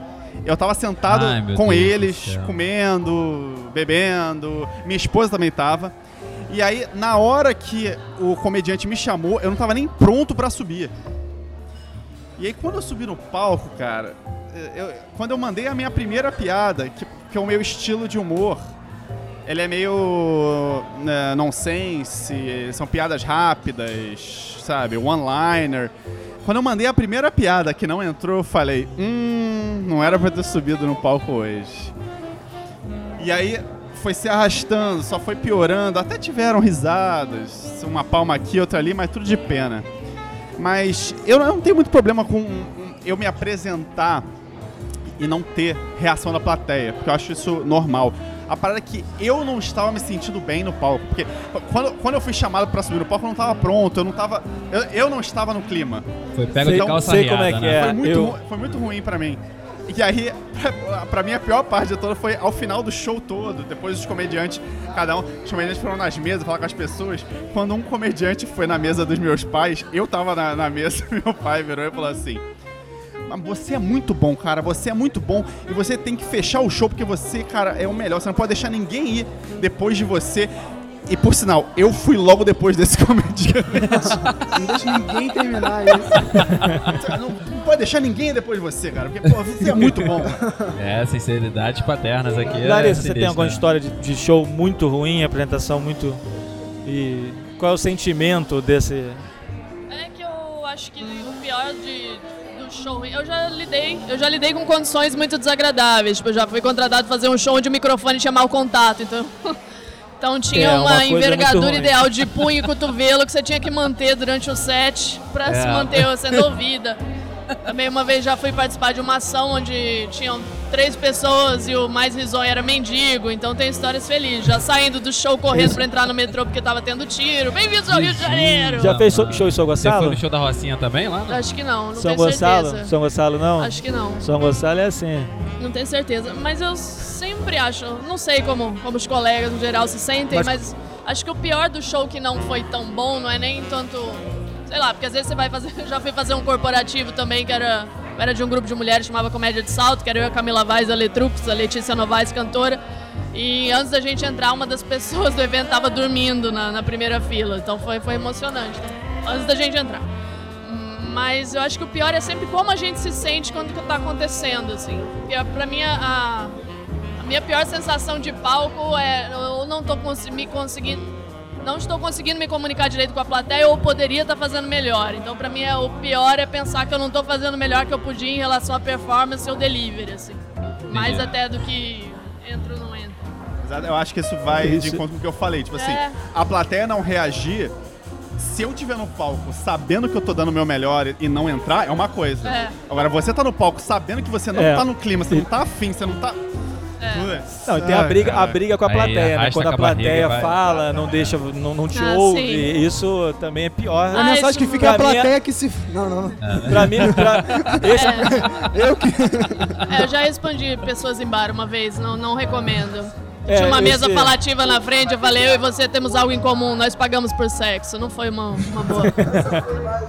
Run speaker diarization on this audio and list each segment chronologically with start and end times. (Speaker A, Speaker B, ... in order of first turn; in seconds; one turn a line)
Speaker A: 0.4-5.9
Speaker B: 1.1-2.6
Speaker A: 6.5-10.9
Speaker A: 12.4-18.6
Speaker A: 19.4-25.9
Speaker A: 26.4-31.9
Speaker A: 33.2-39.9
Speaker A: 40.6-44.2
Speaker A: 45.2-56.1
Speaker B: 56.3-58.0
Speaker C: 56.6-58.3
Speaker A: 56.6-57.0
Speaker A: 57.7-72.4
Speaker A: 73.3-80.5
Speaker A: 81.0-84.2
Speaker D: 83.9-86.5
Speaker B: 86.2-87.0
Speaker A: 86.9-90.4
Speaker D: 90.2-90.7
Speaker B: 90.7-93.6
Speaker C: 92.6-96.2
Speaker C: 96.8-99.2
Speaker E: 99.9-109.5
Speaker E: 110.2-117.0
Speaker C: 110.5-112.0
Speaker B: 115.5-116.4
Speaker E: 117.6-129.0
Speaker C: 125.5-125.8
Speaker B: 127.9-131.4
Speaker C: 128.8-130.2
Speaker E: 131.3-132.9
Speaker C: 131.9-135.3
Speaker E: 133.6-134.2
Speaker E: 135.6-152.8
Speaker C: 140.3-140.6
Speaker E: 153.3-160.1
Speaker E: 160.6-166.6
Speaker E: 167.2-183.2
Speaker B: 180.9-181.4
Speaker A: 183.6-187.7
Speaker C: 184.6-185.0
Speaker E: 185.7-186.2
Speaker A: 188.4-196.4
Speaker E: 192.4-192.7
Speaker C: 194.5-195.4
Speaker E: 197.0-197.3
Speaker A: 197.1-198.6
Speaker C: 197.7-205.3
Speaker B: 198.8-200.5
Speaker E: 201.9-202.7
Speaker E: 204.1-204.9
Speaker D: 204.1-209.8
Speaker B: 206.4-207.8
Speaker C: 206.7-208.4
Speaker E: 207.9-208.4
Speaker E: 209.9-219.2
Speaker C: 213.5-214.3
Speaker C: 218.9-219.7